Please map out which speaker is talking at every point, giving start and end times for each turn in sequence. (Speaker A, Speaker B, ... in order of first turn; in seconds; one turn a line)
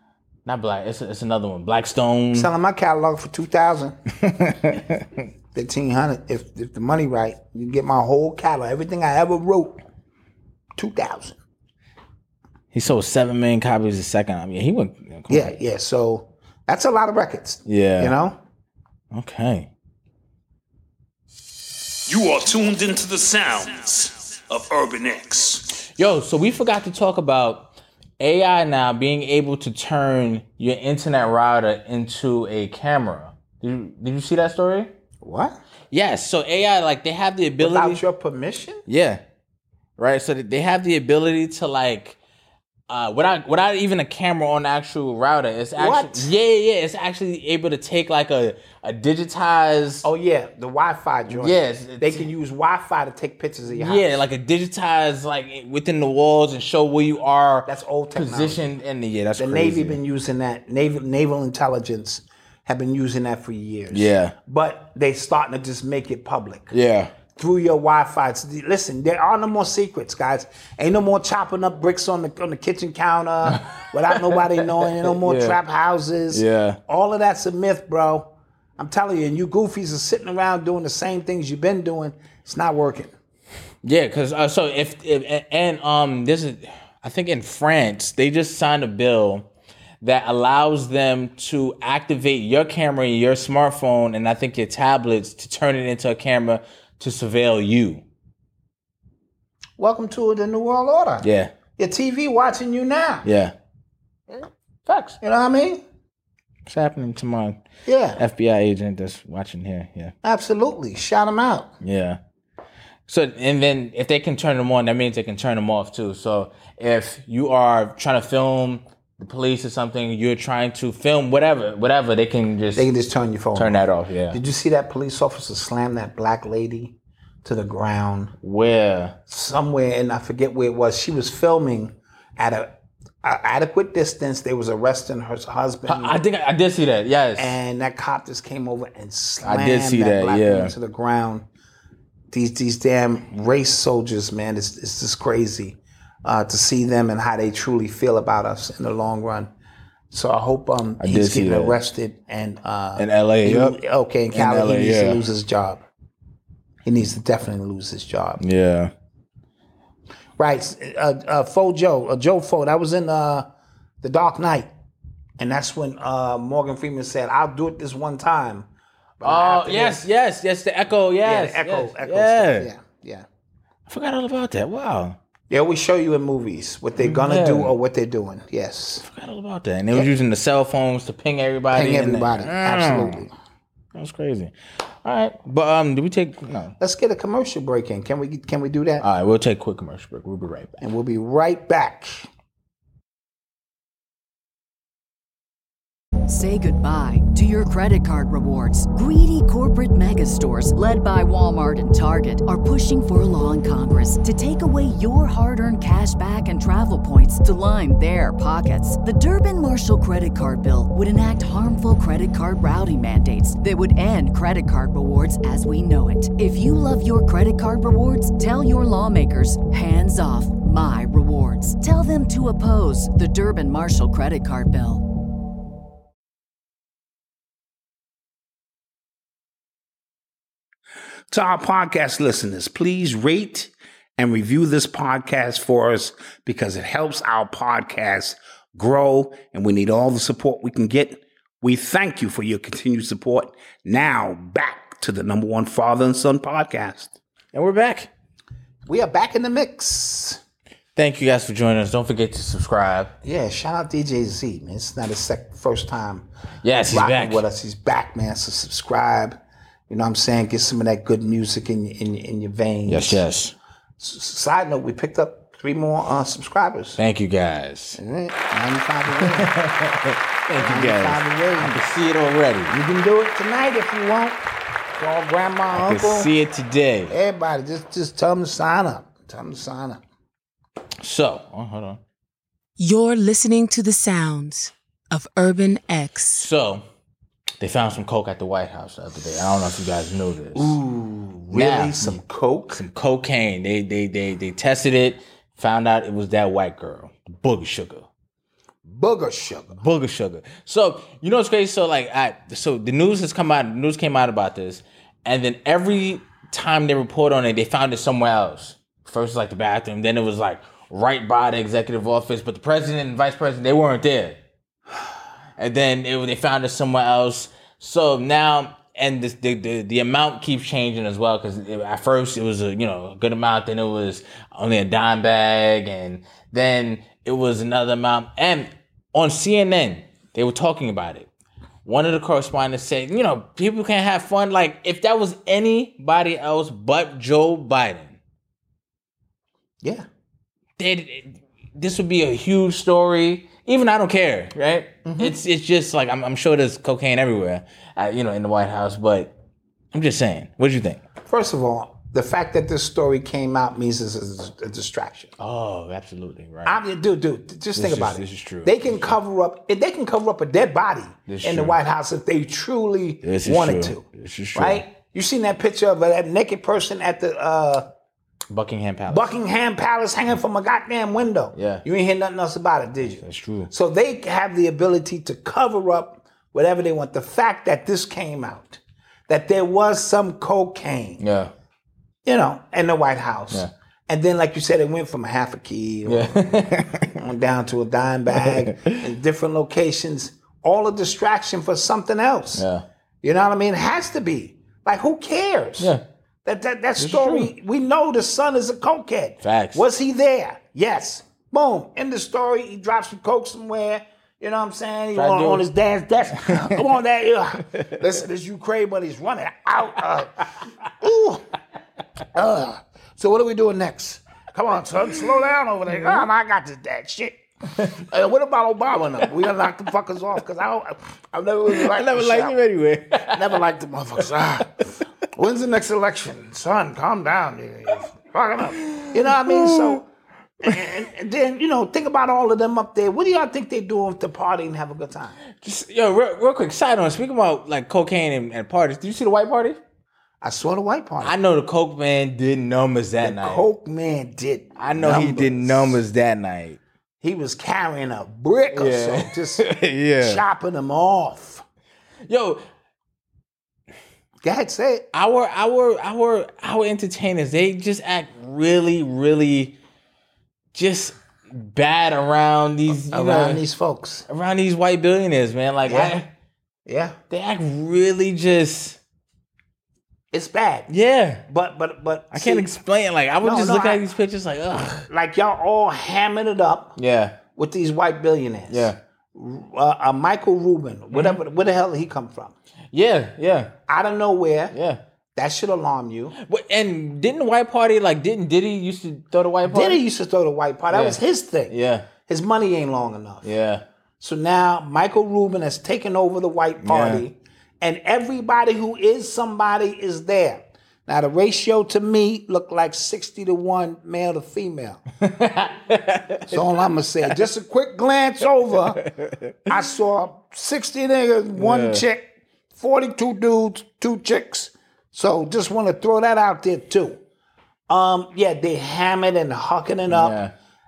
Speaker A: 0.5-2.5
Speaker B: 2.3-4.0
Speaker A: 4.2-5.2
Speaker B: 5.5-9.8
Speaker B: 10.8-11.4
Speaker A: 12.7-15.6
Speaker B: 15.3-18.4
Speaker A: 17.7-18.1
Speaker A: 19.1-19.7
Speaker C: 22.1-25.7
Speaker A: 25.9-34.9
Speaker B: 35.2-35.6
Speaker A: 35.9-38.0
Speaker B: 37.6-38.8
Speaker A: 38.9-39.2
Speaker A: 40.0-42.2
Speaker A: 42.9-50.1
Speaker B: 45.8-46.3
Speaker B: 50.0-54.2
Speaker A: 51.3-52.3
Speaker A: 53.7-60.0
Speaker B: 57.7-58.6
Speaker B: 59.4-66.8
Speaker A: 63.9-64.3
Speaker A: 66.7-67.2
Speaker B: 67.3-83.1
Speaker A: 73.5-75.6
Speaker A: 76.3-76.8
Speaker A: 83.8-89.5
Speaker A: 90.0-98.0
Speaker B: 99.8-103.3
Speaker A: 101.2-101.5
Speaker A: 103.2-103.5
Speaker A: 104.9-105.2
Speaker B: 105.2-105.8
Speaker A: 106.7-107.6
Speaker B: 107.9-108.2
Speaker A: 108.2-110.2
Speaker B: 110.2-111.7
Speaker A: 111.8-112.2
Speaker A: 113.1-122.9
Speaker B: 122.8-128.3
Speaker A: 123.5-124.4
Speaker A: 128.4-129.2
Speaker B: 129.3-136.2
Speaker A: 135.9-137.6
Speaker B: 137.4-141.5
Speaker A: 139.4-140.7
Speaker B: 142.3-149.5
Speaker B: 150.1-155.8
Speaker A: 151.0-151.8
Speaker A: 153.0-153.8
Speaker A: 154.3-155.2
Speaker B: 156.8-158.4
Speaker A: 158.4-158.9
Speaker B: 160.4-163.5
Speaker B: 164.0-164.7
Speaker B: 165.4-168.7
Speaker B: 169.2-170.1
Speaker A: 169.2-172.7
Speaker B: 171.2-173.3
Speaker A: 173.9-175.2
Speaker B: 175.5-179.1
Speaker A: 177.0-177.8
Speaker A: 179.0-183.2
Speaker B: 181.7-183.3
Speaker A: 183.9-186.8
Speaker B: 186.8-189.1
Speaker A: 189.0-190.8
Speaker B: 190.8-192.3
Speaker D: 196.3-225.0
Speaker B: 231.3-247.1
Speaker A: 247.5-248.1
Speaker B: 248.9-250.4
Speaker A: 251.0-253.1
Speaker B: 253.2-256.3
Speaker A: 256.6-257.4
Speaker B: 256.9-259.4
Speaker B: 259.9-263.2
Speaker A: 262.9-263.6
Speaker B: 264.0-267.0
Speaker A: 267.0-268.0
Speaker B: 268.0-269.5
Speaker A: 269.1-272.8
Speaker B: 270.5-271.8
Speaker B: 272.7-274.4
Speaker B: 275.0-276.3
Speaker A: 275.7-277.1
Speaker B: 277.1-280.0
Speaker A: 281.0-282.0
Speaker E: 282.8-286.5
Speaker A: 286.3-286.8
Speaker A: 287.6-290.8
Speaker B: 290.6-292.8
Speaker A: 291.5-292.2
Speaker A: 292.7-298.1
Speaker B: 298.9-299.8
Speaker A: 299.8-314.4
Speaker A: 315.6-331.3
Speaker A: 331.9-338.2
Speaker A: 340.8-349.3
Speaker B: 345.1-345.4
Speaker A: 349.9-351.0
Speaker B: 351.3-355.3
Speaker A: 355.4-356.8
Speaker B: 356.6-367.9
Speaker A: 357.8-359.1
Speaker A: 361.3-361.8
Speaker A: 363.2-364.8
Speaker A: 368.5-369.4
Speaker B: 369.1-381.2
Speaker A: 371.6-371.9
Speaker A: 373.1-373.7
Speaker A: 381.2-381.5
Speaker B: 382.3-392.7
Speaker A: 386.1-387.1
Speaker A: 388.3-389.0
Speaker A: 392.6-392.9
Speaker B: 393.2-410.5
Speaker A: 397.0-397.5
Speaker A: 399.4-399.9
Speaker A: 405.1-405.6
Speaker A: 406.5-406.8
Speaker B: 411.0-411.5
Speaker B: 412.3-422.6
Speaker A: 415.9-416.2
Speaker A: 421.7-423.6
Speaker B: 423.2-430.1
Speaker A: 428.9-430.0
Speaker B: 430.6-435.4
Speaker A: 435.6-439.8
Speaker B: 440.4-441.4
Speaker A: 441.2-443.6
Speaker B: 443.2-446.0
Speaker A: 444.8-446.8
Speaker B: 447.2-451.6
Speaker A: 448.7-450.4
Speaker A: 452.3-452.6
Speaker B: 454.4-455.1
Speaker A: 455.1-459.8
Speaker A: 460.7-463.6
Speaker B: 463.1-464.3
Speaker A: 464.3-466.3
Speaker B: 465.9-466.2
Speaker B: 466.9-467.2
Speaker A: 467.3-469.0
Speaker B: 470.3-470.9
Speaker A: 470.9-471.4
Speaker B: 471.5-472.7
Speaker A: 472.3-475.1
Speaker B: 473.4-474.0
Speaker B: 475.1-477.0
Speaker A: 477.0-477.4
Speaker B: 477.6-482.6
Speaker A: 478.7-479.0
Speaker A: 481.1-481.4
Speaker A: 482.9-483.7
Speaker B: 483.9-484.8
Speaker A: 484.7-485.0
Speaker B: 485.4-486.4
Speaker A: 486.4-490.0
Speaker B: 489.7-491.8
Speaker A: 490.9-492.1
Speaker B: 492.3-493.5
Speaker A: 493.4-493.9
Speaker B: 494.2-505.1
Speaker A: 496.8-497.2
Speaker A: 505.2-506.6
Speaker B: 506.5-509.1
Speaker A: 509.0-509.8
Speaker B: 509.7-517.2
Speaker A: 511.6-512.0
Speaker B: 517.9-520.4
Speaker A: 520.1-520.5